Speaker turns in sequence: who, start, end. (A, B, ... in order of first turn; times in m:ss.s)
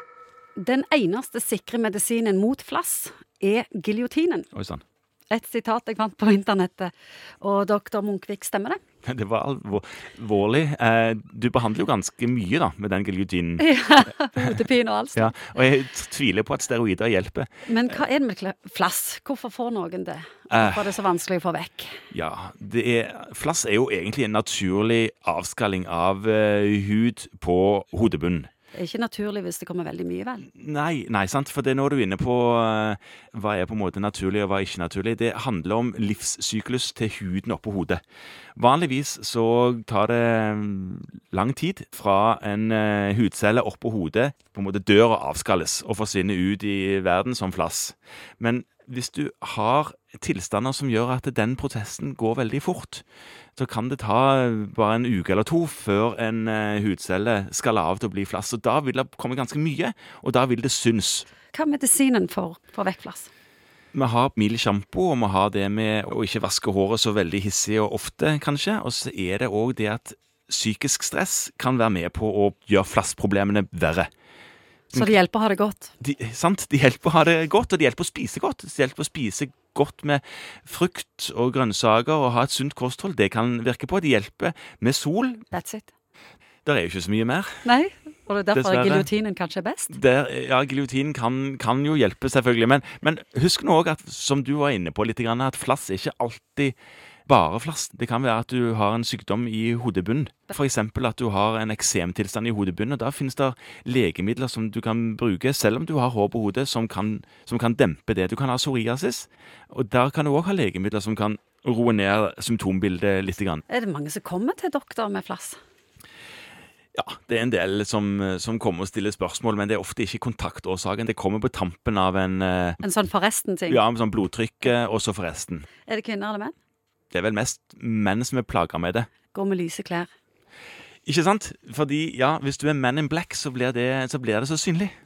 0:00.6-0:04.5 A
0:04.5-0:04.8 B
0:05.3-0:08.8 A
0:09.0-0:13.7 B
0:13.6-0:15.4 A
0:15.2-0:17.6 B
0:17.7-0:22.0 A
0:20.5-0:20.9 B
0:22.1-0:28.5 B
0:28.7-0:30.5 A
0:30.5-0:38.0 B
0:38.6-0:53.0 B
0:53.6-1:01.3 B
1:01.5-1:03.3 A
1:03.9-1:14.1 B
1:14.9-1:15.9 A
1:16.0-1:25.5 B
1:25.5-1:25.9 A
1:26.6-1:27.7 B
1:27.6-1:30.0 A
1:28.5-1:29.1 B
1:29.9-1:36.8 B
1:37.3-1:53.6 B
1:53.7-1:55.6 A
1:57.0-2:02.8 B
2:02.8-2:03.8 A
2:03.7-2:05.7 B
2:05.9-2:06.6 A
2:07.1-2:09.1 B
2:09.3-2:10.1 A
2:11.1-2:15.0 B